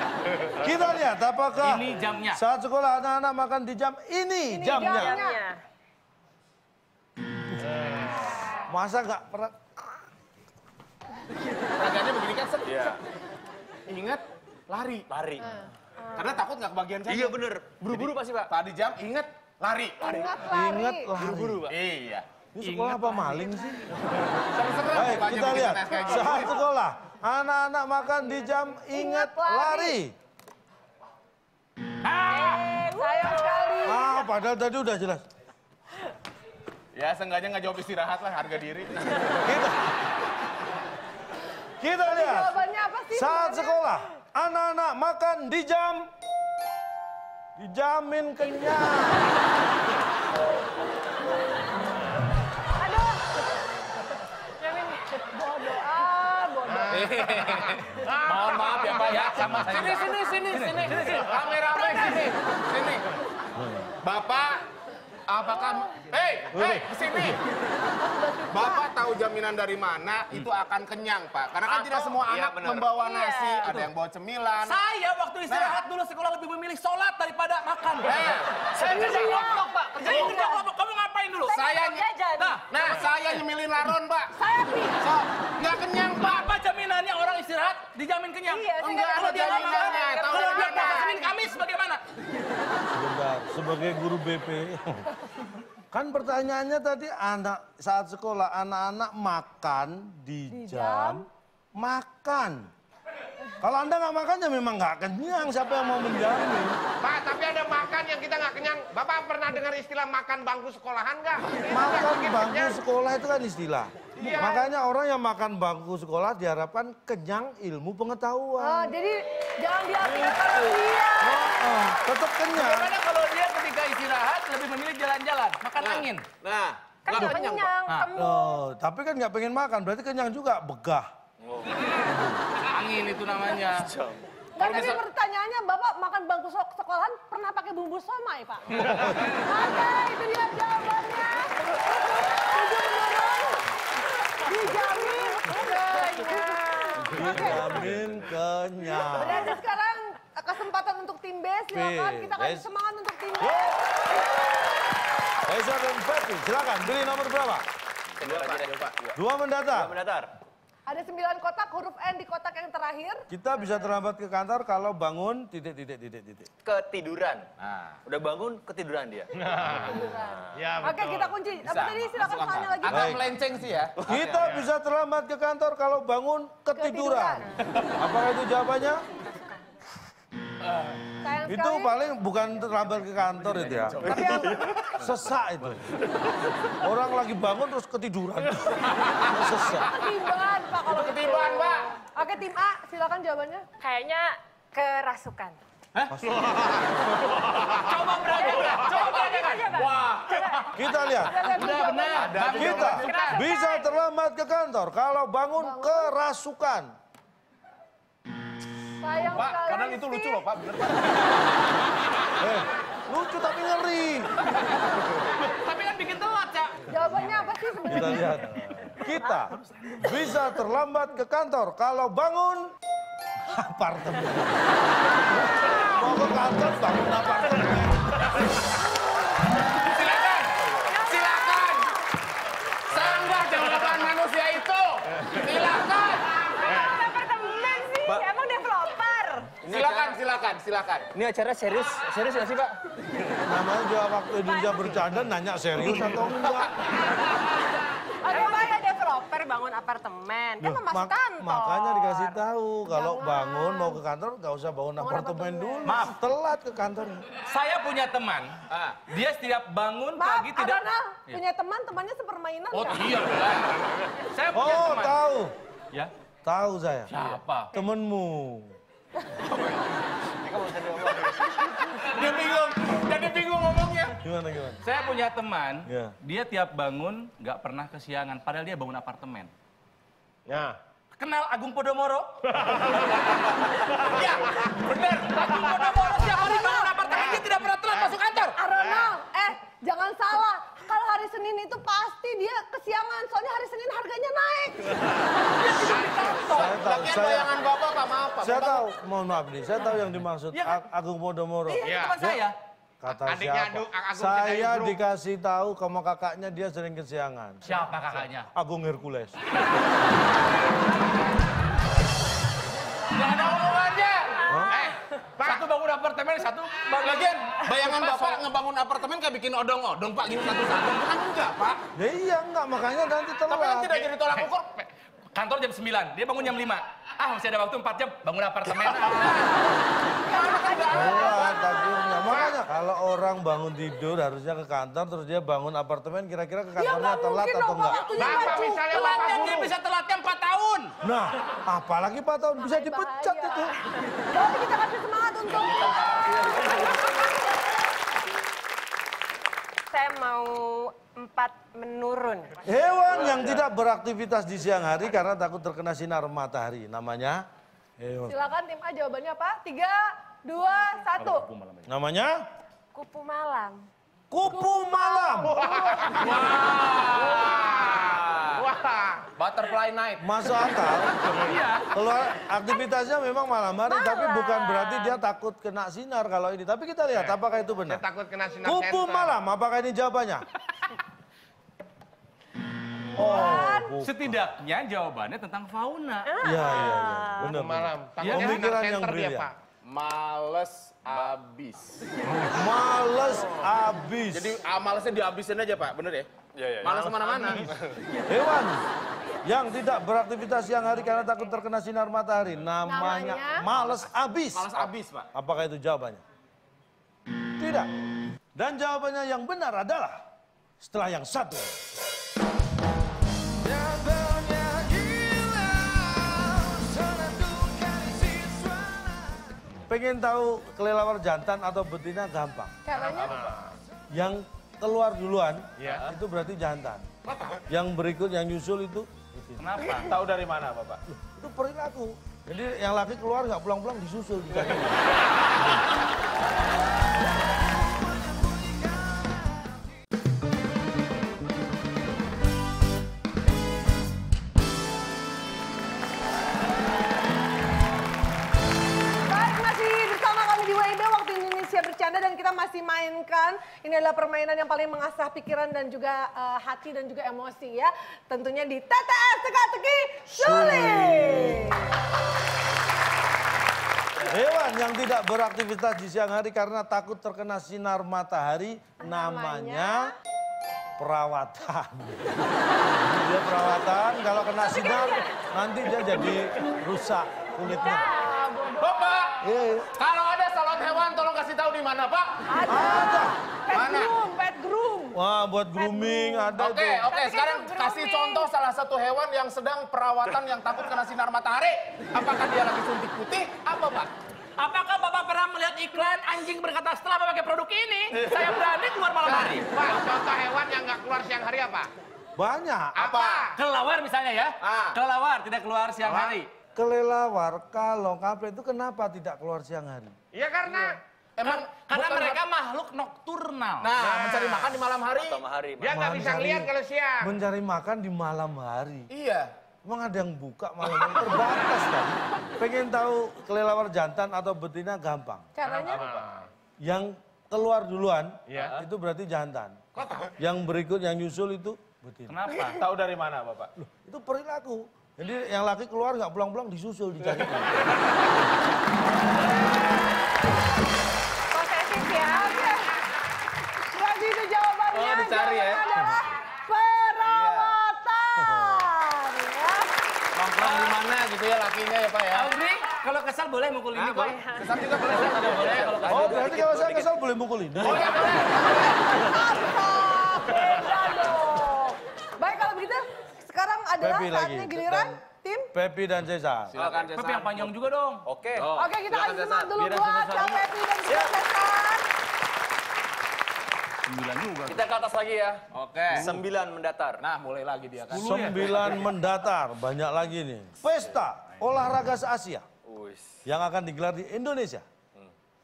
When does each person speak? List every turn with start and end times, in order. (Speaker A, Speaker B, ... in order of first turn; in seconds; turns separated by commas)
Speaker A: 0.6-5.2, Speaker B: 1.6-2.4, Speaker C: 4.5-5.4, Speaker D: 4.7-5.6, Speaker E: 7.6-8.4, Speaker A: 8.7-10.0, Speaker F: 11.8-12.9, Speaker G: 12.6-13.0, Speaker F: 13.9-15.1, Speaker G: 15.1-15.5, Speaker F: 16.1-20.2, Speaker G: 17.1-18.5, Speaker C: 20.0-21.1, Speaker G: 20.1-20.4, Speaker A: 20.5-21.7, Speaker G: 21.1-21.8, Speaker F: 21.7-22.2, Speaker A: 22.5-24.0, Speaker B: 22.6-23.3, Speaker F: 24.5-26.6, Speaker A: 24.8-30.1, Speaker C: 28.9-30.0, Speaker B: 32.0-32.7, Speaker D: 32.2-33.9, Speaker C: 33.0-34.2, Speaker A: 33.8-35.2, Speaker F: 36.9-39.5, Speaker A: 39.4-39.8, Speaker A: 41.8-42.5, Speaker C: 42.0-43.9, Speaker A: 43.1-46.1, Speaker A: 47.6-49.4, Speaker C: 52.8-53.3, Speaker D: 54.6-55.2, Speaker C: 55.2-57.2, Speaker E: 56.6-59.2, Speaker F: 56.9-63.0, Speaker B: 58.3-61.5, Speaker G: 58.5-59.0, Speaker C: 61.7-62.3, Speaker A: 63.5-63.9, Speaker F: 64.0-64.6, Speaker F: 65.3-67.4, Speaker A: 66.5-67.3, Speaker C: 68.0-68.9, Speaker F: 68.5-74.8, Speaker G: 72.2-73.0, Speaker D: 73.0-73.6, Speaker B: 73.6-73.9, Speaker B: 74.6-81.8, Speaker F: 75.5-75.8, Speaker F: 78.0-78.6, Speaker C: 78.8-80.6, Speaker D: 79.2-80.5, Speaker F: 81.5-82.0, Speaker D: 81.5-82.6, Speaker B: 82.4-83.4, Speaker F: 82.7-84.3, Speaker C: 84.4-85.2, Speaker F: 84.9-86.5, Speaker B: 86.2-92.0, Speaker D: 88.5-91.3, Speaker F: 88.8-91.1, Speaker C: 89.2-91.3, Speaker A: 92.9-95.1, Speaker A: 95.9-102.7, Speaker C: 100.5-101.2, Speaker A: 103.6-106.8, Speaker E: 107.0-112.8, Speaker A: 111.7-118.9, Speaker E: 114.2-114.6, Speaker F: 114.2-114.5, Speaker C: 118.6-122.0, Speaker A: 120.1-120.4, Speaker A: 121.2-122.9, Speaker B: 122.5-126.2, Speaker F: 125.8-127.7, Speaker D: 127.0-128.6, Speaker C: 127.1-128.2, Speaker A: 128.1-131.1, Speaker G: 131.4-131.9, Speaker A: 132.0-132.4, Speaker B: 132.6-133.9, Speaker G: 133.7-134.2, Speaker C: 134.6-143.6, Speaker F: 134.6-135.0, Speaker A: 138.8-139.2, Speaker C: 144.3-147.8, Speaker D: 145.1-147.7, Speaker A: 147.1-149.6, Speaker C: 149.0-154.2, Speaker A: 151.7-152.7, Speaker A: 153.4-153.8, Speaker A: 155.4-157.7, Speaker F: 158.2-159.0, Speaker G: 158.2-160.3, Speaker A: 159.1-159.9, Speaker C: 160.9-163.2, Speaker A: 163.3-166.5, Speaker G: 166.6-167.5, Speaker F: 167.6-168.0, Speaker G: 168.1-169.3, Speaker E: 169.3-171.3, Speaker C: 169.9-173.2, Speaker F: 171.6-174.5, Speaker A: 172.9-173.3, Speaker A: 174.1-179.0, Speaker E: 174.4-174.7, Speaker C: 176.7-177.5, Speaker F: 180.6-181.0, Speaker C: 181.2-182.0, Speaker A: 181.4-184.3, Speaker F: 183.4-184.5, Speaker G: 184.0-184.9, Speaker C: 184.0-184.8, Speaker A: 185.0-185.9, Speaker A: 186.8-189.9, Speaker F: 189.0-189.3, Speaker C: 189.7-193.7, Speaker F: 190.8-191.9, Speaker D: 193.8-195.6, Speaker A: 196.1-197.3, Speaker B: 197.7-200.6, Speaker D: 198.4-201.2, Speaker F: 198.5-200.5, Speaker A: 200.7-201.4, Speaker C: 200.9-203.2, Speaker B: 201.3-202.8, Speaker F: 202.0-203.4, Speaker D: 202.4-203.9, Speaker A: 202.5-206.9, Speaker C: 205.6-206.1, Speaker C: 209.0-210.4, Speaker F: 209.2-211.7, Speaker A: 212.4-214.3, Speaker B: 215.4-216.7, Speaker C: 216.9-218.3, Speaker A: 217.9-222.7, Speaker A: 223.4-224.7, Speaker A: 225.9-228.3, Speaker B: 229.8-230.4, Speaker F: 229.9-231.9, Speaker D: 230.9-231.9, Speaker F: 232.9-236.3, Speaker D: 236.4-239.6, Speaker F: 239.6-241.1, Speaker G: 239.6-240.2, Speaker G: 241.1-242.7, Speaker A: 243.4-246.7, Speaker D: 244.4-245.0, Speaker C: 248.2-248.8, Speaker D: 248.2-251.8, Speaker A: 250.6-257.3, Speaker C: 251.6-252.3, Speaker C: 252.9-254.0, Speaker C: 255.0-256.1, Speaker B: 255.8-256.2, Speaker B: 257.4-261.4, Speaker F: 258.7-259.0, Speaker C: 260.2-263.1, Speaker B: 262.7-263.4, Speaker F: 262.9-263.8, Speaker B: 264.3-265.2, Speaker A: 264.5-265.5, Speaker A: 266.4-267.1, Speaker B: 267.1-267.7, Speaker A: 267.7-268.8, Speaker G: 270.4-271.8, Speaker F: 271.9-274.2, Speaker A: 274.2-274.8, Speaker B: 274.8-279.5, Speaker A: 275.9-276.1, Speaker E: 280.5-280.8, Speaker B: 281.2-282.3, Speaker E: 282.6-283.1, Speaker F: 284.0-285.4, Speaker B: 284.9-288.6, Speaker C: 286.1-287.4, Speaker E: 287.1-288.1, Speaker C: 288.6-296.7, Speaker E: 288.8-289.1, Speaker E: 295.9-296.2, Speaker F: 296.4-298.8, Speaker A: 296.5-297.5, Speaker A: 298.4-302.4, Speaker B: 300.5-300.8, Speaker B: 301.6-302.5, Speaker E: 301.8-302.2, Speaker A: 303.0-307.6, Speaker E: 303.1-305.0, Speaker B: 307.6-308.5, Speaker A: 308.5-309.4, Speaker F: 313.1-314.9, Speaker B: 313.1-313.7, Speaker A: 314.5-314.7, Speaker E: 314.7-315.6, Speaker B: 315.4-318.4, Speaker F: 316.9-321.8, Speaker A: 321.9-324.1, Speaker F: 323.5-324.9, Speaker B: 325.3-329.4, Speaker F: 328.8-329.6, Speaker F: 330.2-331.6, Speaker C: 330.2-332.2, Speaker A: 330.9-338.5, Speaker C: 336.8-339.6, Speaker E: 338.1-339.7, Speaker B: 338.8-340.9, Speaker A: 341.0-343.7, Speaker C: 342.6-343.8, Speaker C: 344.3-347.3, Speaker F: 345.5-347.1, Speaker D: 349.9-352.6, Speaker A: 352.6-357.4, Speaker F: 353.1-353.6, Speaker A: 358.0-358.5, Speaker C: 358.3-361.5, Speaker B: 361.2-361.9, Speaker A: 361.9-362.3, Speaker D: 362.9-363.9, Speaker A: 364.3-365.6, Speaker C: 364.5-366.4, Speaker E: 365.6-366.3, Speaker F: 366.1-368.6, Speaker E: 367.1-369.2, Speaker F: 369.4-370.3, Speaker A: 370.2-371.2, Speaker B: 371.3-371.9, Speaker A: 371.9-378.0, Speaker C: 373.9-375.1, Speaker E: 377.9-379.4, Speaker A: 378.6-380.4, Speaker A: 383.1-384.4, Speaker C: 383.1-383.9, Speaker B: 384.0-386.3, Speaker D: 386.2-387.6, Speaker A: 386.4-389.5, Speaker E: 387.4-389.5, Speaker B: 388.2-388.6, Speaker F: 389.9-392.0, Speaker A: 392.3-394.6, Speaker F: 394.3-396.3, Speaker G: 396.5-398.2, Speaker F: 396.8-397.7, Speaker A: 398.3-398.8, Speaker A: 399.4-406.2, Speaker C: 402.9-403.7, Speaker F: 404.5-405.3, Speaker A: 407.6-407.9, Speaker A: 408.5-410.2, Speaker A: 410.8-411.8, Speaker A: 413.6-422.8, Speaker C: 422.8-423.5, Speaker E: 422.9-423.8, Speaker A: 424.1-427.1, Speaker E: 425.8-426.1, Speaker E: 427.3-427.6, Speaker A: 427.7-429.6, Speaker B: 429.6-430.1, Speaker F: 429.9-431.0, Speaker A: 431.1-435.9, Speaker C: 449.2-461.9, Speaker A: 460.3-461.8, Speaker A: 464.3-470.1, Speaker C: 469.0-470.0, Speaker A: 471.0-478.2, Speaker D: 474.8-475.1, Speaker C: 477.7-479.3, Speaker D: 477.8-478.3, Speaker F: 478.8-479.4, Speaker A: 479.4-479.9, Speaker F: 480.0-482.4, Speaker C: 482.5-485.2, Speaker A: 482.6-483.4, Speaker F: 483.7-484.1, Speaker A: 485.1-487.1, Speaker C: 485.7-486.5, Speaker F: 486.5-494.1, Speaker D: 487.1-488.4, Speaker C: 487.1-488.4, Speaker B: 494.6-499.7, Speaker E: 499.2-501.9, Speaker A: 502.4-503.1, Speaker E: 503.0-503.6, Speaker F: 503.0-503.4, Speaker B: 503.5-506.5, Speaker F: 504.6-505.0, Speaker E: 506.0-506.4, Speaker A: 506.8-510.1, Speaker E: 510.3-511.0, Speaker F: 511.4-512.4, Speaker B: 511.4-513.9, Speaker F: 513.8-515.4, Speaker E: 514.0-514.8, Speaker G: 515.2-516.0, Speaker E: 515.8-517.3, Speaker A: 515.9-519.1, Speaker F: 519.1-519.5, Speaker A: 519.8-525.5, Speaker C: 525.5-526.0, Speaker E: 525.6-526.5, Speaker F: 525.9-526.2, Speaker A: 526.8-529.8, Speaker E: 528.5-528.8, Speaker F: 528.5-528.8, Speaker E: 529.9-530.3, Speaker A: 530.4-532.4, Speaker B: 532.3-532.8, Speaker F: 532.7-533.7, Speaker A: 533.8-538.0, Speaker D: 541.5-542.7, Speaker C: 542.0-542.9, Speaker C: 543.7-549.9, Speaker F: 544.9-545.9, Speaker F: 547.2-547.8, Speaker A: 548.4-548.9, Speaker F: 550.3-552.5, Speaker B: 550.6-551.0, Speaker B: 552.3-554.4, Speaker F: 553.9-556.3, Speaker D: 554.4-554.7, Speaker B: 555.0-557.0, Speaker G: 555.2-556.6, Speaker A: 556.1-558.1, Speaker F: 557.8-559.2, Speaker C: 558.0-565.7, Speaker A: 564.0-565.2, Speaker A: 565.7-566.8, Speaker F: 566.7-567.7, Speaker G: 566.8-567.1, Speaker B: 567.0-568.2, Speaker G: 568.2-568.7, Speaker F: 568.5-569.8, Speaker C: 568.7-572.1, Speaker B: 569.8-570.6, Speaker G: 571.1-571.3, Speaker B: 574.1-574.8, Speaker G: 574.7-577.2, Speaker F: 575.7-576.3, Speaker B: 576.1-576.4, Speaker F: 577.2-578.5, Speaker B: 578.1-578.8, Speaker A: 578.1-582.7, Speaker G: 582.8-583.4, Speaker A: 583.5-584.8